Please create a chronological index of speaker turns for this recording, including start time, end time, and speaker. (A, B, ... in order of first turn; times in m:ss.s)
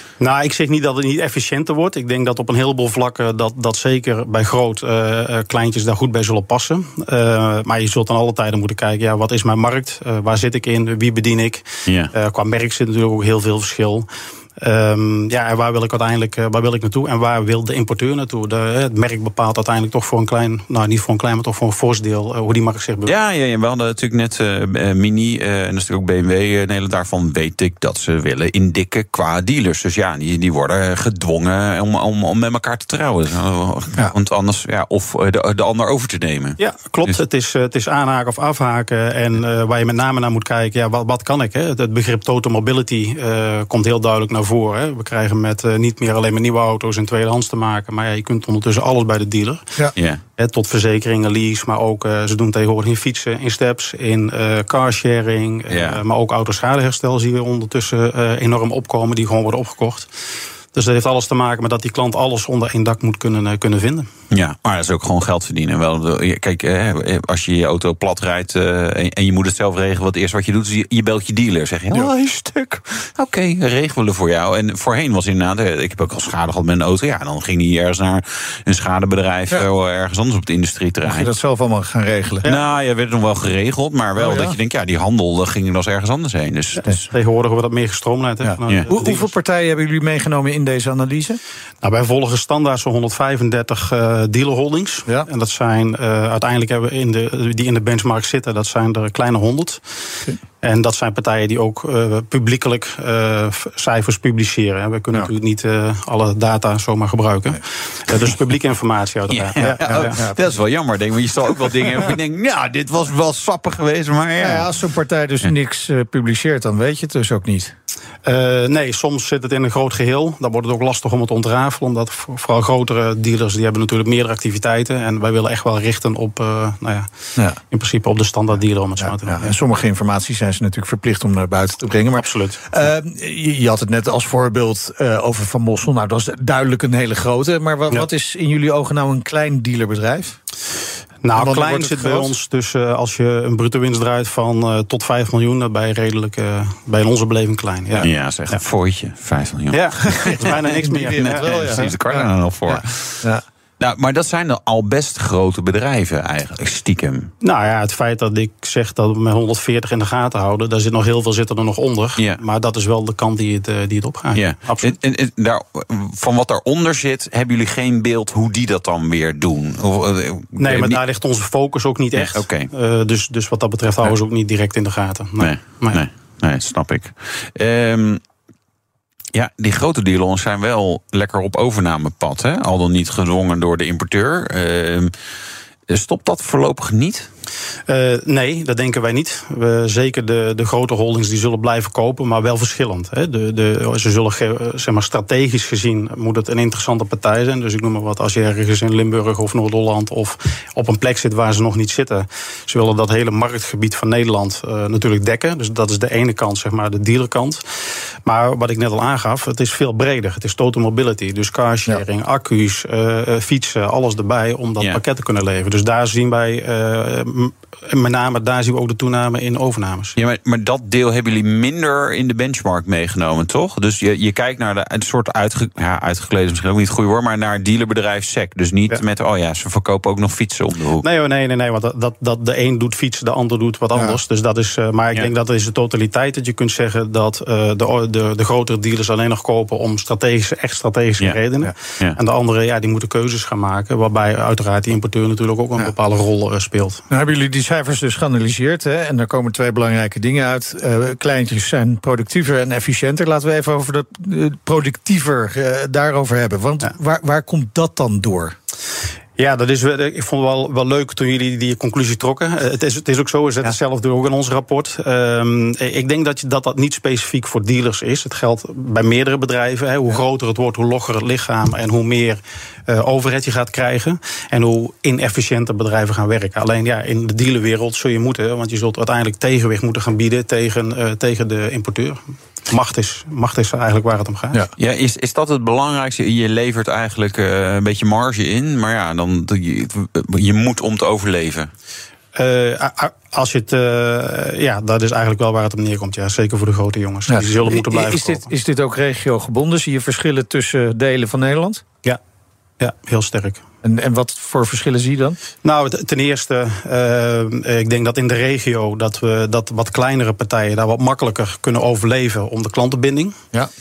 0:00.2-0:14.1 A
0:11.9-0:12.1 B
0:14.6-0:23.1 A
0:23.0-0:37.2 B
0:36.6-0:49.6 A
0:50.0-0:50.2 B
0:50.4-1:00.1 A
0:55.7-0:56.0 B
1:00.7-1:04.1 A
1:04.3-1:21.3 B
1:21.0-1:22.4 C
1:22.4-1:27.1 B
1:24.2-1:24.5 C
1:26.8-1:29.3 A
1:28.4-1:31.4 C
1:31.8-1:39.8 A
1:40.6-1:50.2 A
1:49.3-1:54.7 B
1:49.8-1:50.3 C
1:54.4-1:57.7 C
1:58.2-2:07.1 A
2:07.7-2:09.5 A
2:09.0-2:20.4 C
2:12.1-2:12.6 A
2:21.2-2:28.6 A
2:21.3-2:22.3 C
2:28.0-2:33.3 B
2:29.7-2:31.8 A
2:30.8-2:31.9 C
2:32.7-2:33.4 C
2:33.8-2:37.3 B
2:37.4-2:44.9 A
2:44.3-2:51.0 B
2:50.6-2:56.0 A
2:52.1-2:52.7 B
2:55.4-2:58.2 B
2:59.3-3:05.1 B
3:05.9-3:07.3 B
3:07.9-3:27.6 A
3:28.2-3:40.1 A
3:40.2-3:51.0 B
3:51.0-4:07.0 A
4:07.1-4:18.6 C
4:19.4-4:44.6 A
4:44.8-4:51.7 B
4:52.3-4:58.5 A
4:57.3-5:01.8 C
5:02.8-5:03.6 A
5:03.8-5:05.4 C
5:05.6-5:13.4 A